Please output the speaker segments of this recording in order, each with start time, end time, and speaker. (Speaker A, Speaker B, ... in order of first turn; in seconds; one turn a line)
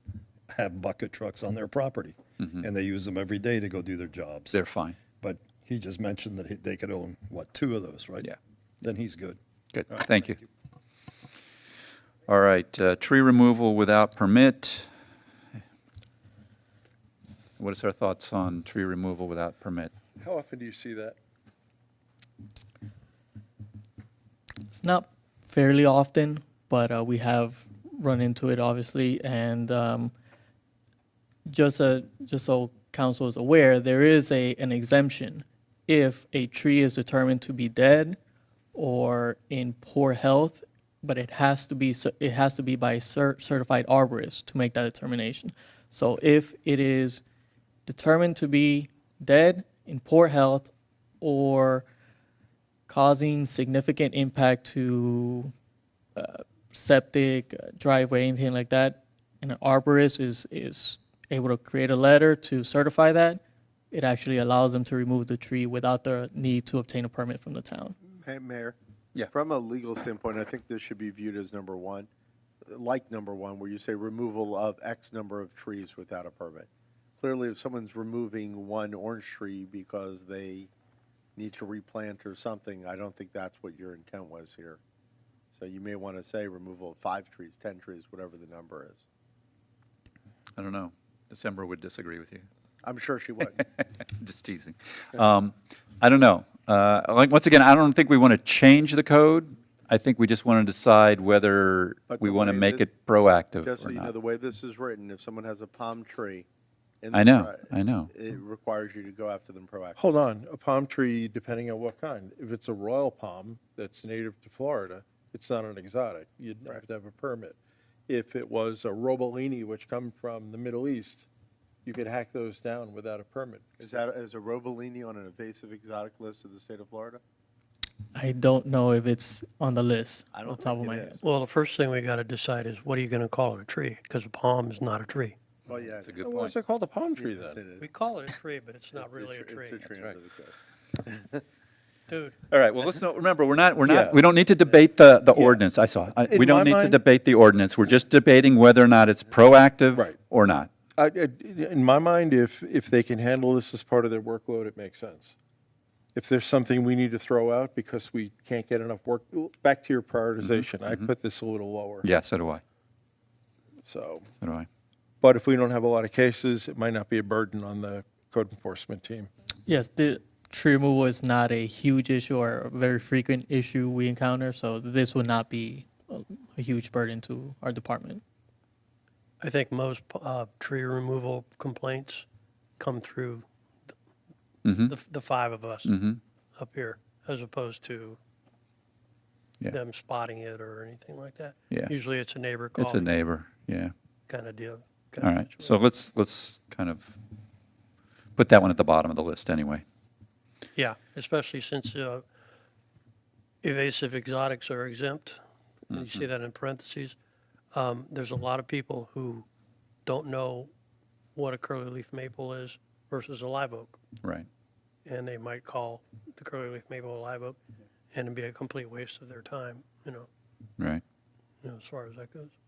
Speaker A: 0.5-4.6
Speaker B: 4.5-5.0
Speaker A: 5.2-8.3
Speaker A: 8.8-9.4
Speaker B: 9.7-10.4
Speaker A: 9.9-10.4
Speaker B: 12.3-14.9
Speaker B: 17.6-19.9
Speaker C: 20.2-21.2
Speaker D: 24.7-30.1
Speaker D: 31.5-38.2
Speaker D: 38.7-47.2
Speaker D: 47.9-50.7
Speaker D: 51.2-51.9
Speaker D: 52.9-55.5
Speaker D: 56.1-63.4
Speaker D: 63.9-67.9
Speaker E: 68.0-68.8
Speaker E: 69.3-72.1
Speaker E: 72.7-76.7
Speaker E: 77.2-80.7
Speaker E: 81.3-84.8
Speaker E: 85.5-89.0
Speaker B: 90.6-92.5
Speaker E: 92.8-93.6
Speaker B: 94.1-104.1
Speaker E: 102.1-102.8
Speaker E: 103.6-106.5
Speaker E: 107.0-110.0
Speaker B: 107.1-108.1
Speaker C: 110.0-117.5
Speaker C: 118.1-121.3
Speaker C: 121.8-123.7
Speaker E: 123.8-127.2
Speaker D: 128.1-131.2
Speaker E: 130.3-131.2
Speaker F: 131.2-135.3
Speaker E: 135.7-136.2
Speaker B: 136.0-136.6
Speaker C: 136.2-137.6
Speaker E: 137.1-137.9
Speaker F: 137.8-139.9
Speaker E: 138.9-141.4
Speaker F: 142.1-142.4
Speaker B: 142.5-150.7
Speaker C: 143.8-144.2
Speaker C: 145.3-145.6
Speaker C: 146.2-147.0
Speaker C: 151.0-155.3
Speaker C: 156.1-162.1
Speaker B: 160.4-161.1
Speaker B: 162.0-162.6
Speaker C: 163.8-164.3
Speaker B: 164.4-164.7
Speaker C: 165.2-169.3
Speaker D: 169.7-178.2
Speaker F: 179.4-182.2
Speaker F: 182.8-183.9
Speaker B: 184.6-184.9
Speaker F: 184.9-185.9
Speaker B: 185.8-186.2
Speaker F: 186.5-188.2
Speaker F: 189.7-193.2
Speaker B: 192.7-193.9
Speaker F: 194.3-195.8
Speaker B: 195.2-197.1
Speaker B: 198.3-199.8
Speaker F: 200.7-202.2
Speaker F: 203.6-207.2
Speaker B: 205.9-206.2
Speaker F: 207.7-209.4
Speaker F: 210.1-210.7
Speaker F: 211.3-214.0
Speaker B: 214.2-214.5
Speaker F: 215.0-217.6
Speaker F: 218.1-220.3
Speaker F: 221.6-222.5